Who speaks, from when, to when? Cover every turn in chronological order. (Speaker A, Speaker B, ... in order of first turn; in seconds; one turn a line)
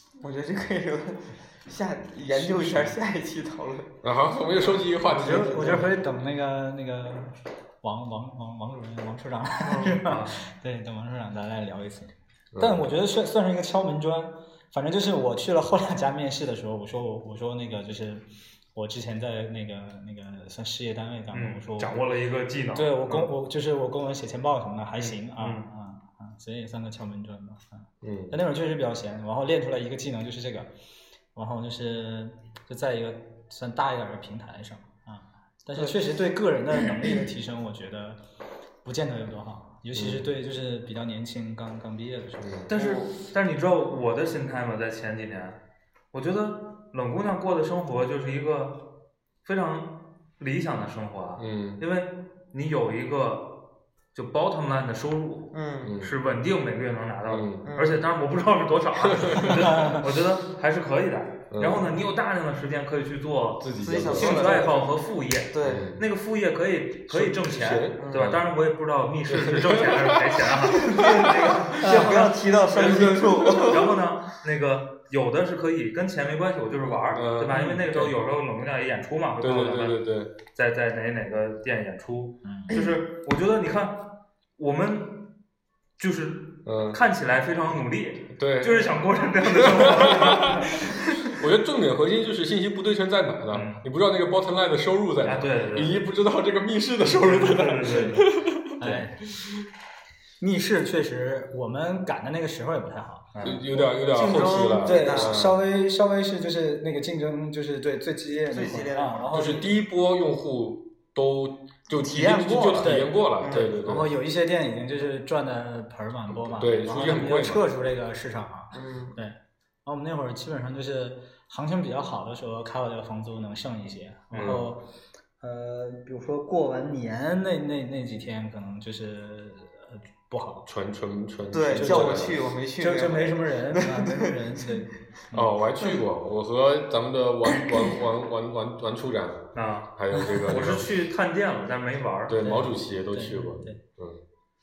Speaker A: 0.2-3.9
Speaker B: 2.3-3.0
Speaker C: 4.0-5.9
Speaker A: 4.7-5.9
Speaker B: 5.0-22.0
Speaker A: 9.6-10.0
Speaker D: 10.0-10.3
Speaker C: 12.5-12.9
Speaker D: 21.3-23.3
Speaker B: 22.7-30.7
Speaker D: 25.0-25.7
Speaker C: 28.0-28.3
Speaker B: 31.3-38.2
Speaker B: 38.8-42.6
Speaker C: 39.9-40.3
Speaker C: 42.4-42.7
Speaker D: 42.7-45.6
Speaker A: 42.7-43.1
Speaker D: 46.1-85.4
Speaker C: 51.4-51.8
Speaker A: 55.5-55.9
Speaker C: 55.8-56.2
Speaker C: 57.3-57.7
Speaker A: 57.6-58.0
Speaker C: 59.0-59.7
Speaker B: 59.7-60.0
Speaker C: 61.5-62.0
Speaker C: 63.6-64.7
Speaker A: 63.8-64.9
Speaker A: 65.5-65.9
Speaker C: 65.6-66.0
Speaker C: 67.1-68.5
Speaker A: 68.0-68.3
Speaker C: 69.3-72.0
Speaker A: 70.9-73.9
Speaker B: 71.9-72.3
Speaker C: 72.7-73.8
Speaker C: 76.8-78.1
Speaker C: 79.4-80.3
Speaker B: 82.4-82.7
Speaker D: 86.0-91.1
Speaker C: 86.6-87.0
Speaker C: 88.3-89.0
Speaker C: 89.5-98.8
Speaker D: 93.5-93.8
Speaker D: 95.2-96.0
Speaker D: 97.0-98.3
Speaker B: 97.9-98.2
Speaker B: 98.8-99.2
Speaker B: 100.4-103.4
Speaker D: 103.3-103.6
Speaker C: 103.4-105.6
Speaker A: 104.0-105.4
Speaker B: 104.7-109.8
Speaker A: 108.5-109.3
Speaker C: 109.3-114.1
Speaker A: 112.0-113.7
Speaker B: 112.8-124.8
Speaker C: 116.3-117.6
Speaker A: 118.7-119.2
Speaker D: 124.3-124.6
Speaker C: 124.4-124.7
Speaker B: 125.4-130.7
Speaker C: 130.7-132.4
Speaker A: 131.5-134.3
Speaker B: 131.7-135.5
Speaker C: 135.3-140.9
Speaker D: 139.5-142.4
Speaker C: 142.3-144.2
Speaker B: 142.4-143.8